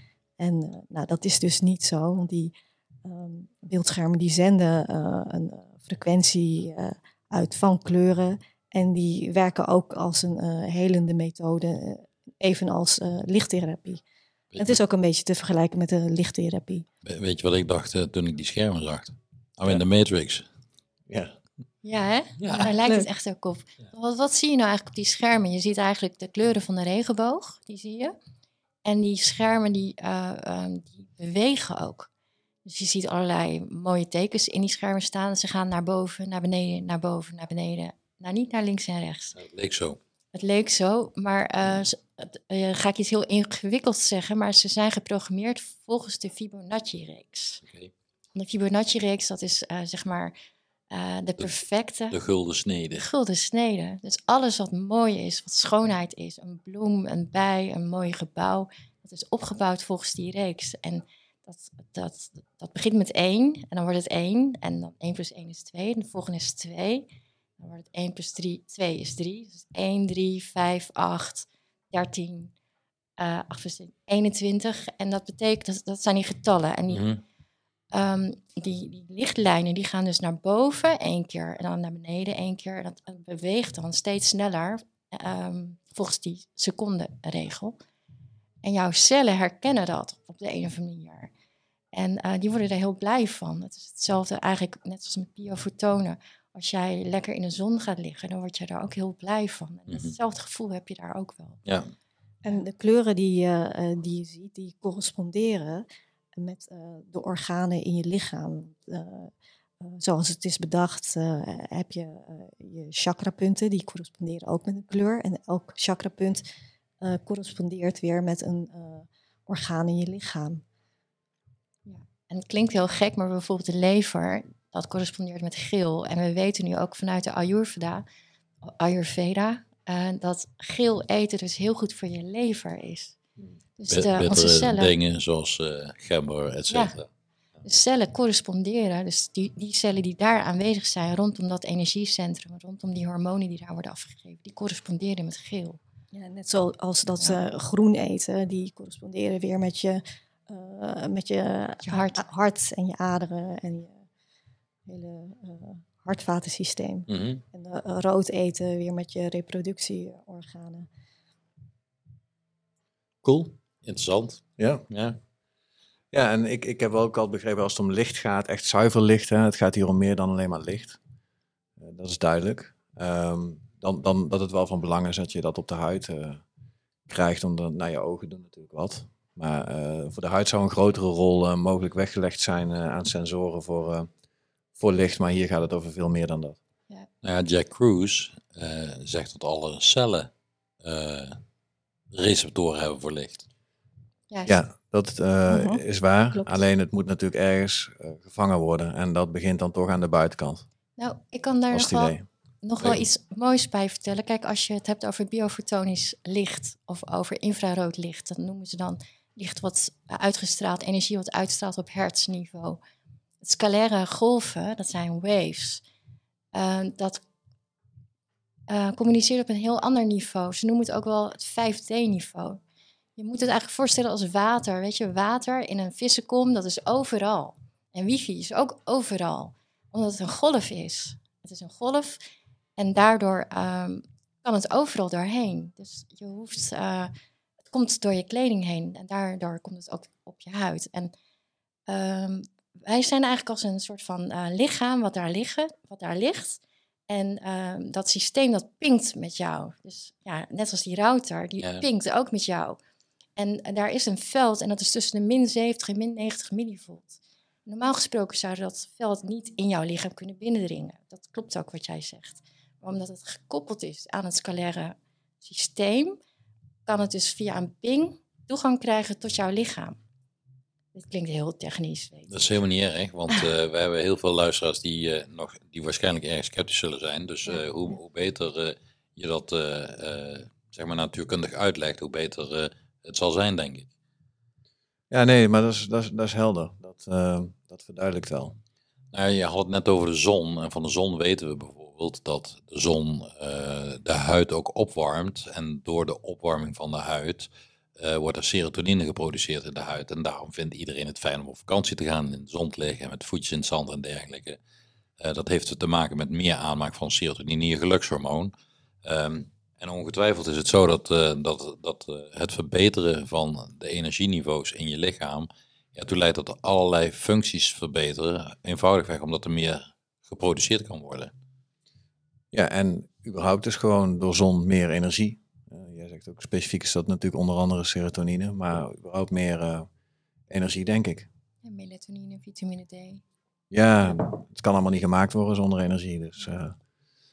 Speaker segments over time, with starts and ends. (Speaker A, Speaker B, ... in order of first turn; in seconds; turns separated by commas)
Speaker A: 0.4-2.5, Speaker A: 3.0-14.0, Speaker B: 14.5-14.8, Speaker A: 14.6-16.9, Speaker B: 17.0-20.4, Speaker C: 21.1-21.3, Speaker D: 21.8-28.2, Speaker B: 22.4-22.8, Speaker D: 28.8-32.1, Speaker D: 32.6-39.4, Speaker B: 39.4-40.0, Speaker D: 40.3-47.6, Speaker B: 47.6-47.9, Speaker D: 48.4-50.3, Speaker D: 50.9-52.2, Speaker B: 52.1-53.0, Speaker D: 53.0-67.1, Speaker D: 67.6-72.5, Speaker D: 73.2-77.1, Speaker B: 76.9-77.2, Speaker D: 77.9-87.8, Speaker D: 88.6-91.3, Speaker D: 91.9-101.6, Speaker B: 99.9-100.1, Speaker B: 101.7-101.9, Speaker A: 102.4-105.8, Speaker A: 106.4-116.4, Speaker A: 117.0-120.6, Speaker D: 121.9-128.1, Speaker D: 128.6-133.2, Speaker D: 133.8-134.9, Speaker B: 133.9-137.1, Speaker D: 137.6-145.8, Speaker A: 146.1-154.0, Speaker D: 151.8-152.3, Speaker A: 154.9-160.9, Speaker B: 157.1-157.4, Speaker B: 163.2-165.2, Speaker C: 164.6-164.8, Speaker C: 166.1-171.0, Speaker C: 171.8-176.4, Speaker C: 177.1-184.1, Speaker C: 184.8-186.6, Speaker B: 187.2-191.4, Speaker B: 192.1-193.4, Speaker D: 194.3-194.6, Speaker C: 194.5-200.7, Speaker A: 195.5-195.8, Speaker D: 201.0-212.8, Speaker C: 201.7-202.2, Speaker D: 213.4-215.8, Speaker D: 216.5-217.2, Speaker D: 218.7-222.6, Speaker D: 223.2-232.2, Speaker D: 232.8-237.1, Speaker D: 237.7-241.1, Speaker D: 241.9-252.8, Speaker B: 251.6-251.9, Speaker D: 253.4-266.2, Speaker D: 266.9-270.0, Speaker D: 270.9-272.4, Speaker B: 272.3-283.9, Speaker C: 285.1-288.6, Speaker B: 289.1-304.6, Speaker B: 305.2-308.5, Speaker B: 309.0-321.3, Speaker C: 322.5-329.9, Speaker C: 330.5-331.3, Speaker D: 331.6-333.2, Speaker C: 333.7-336.8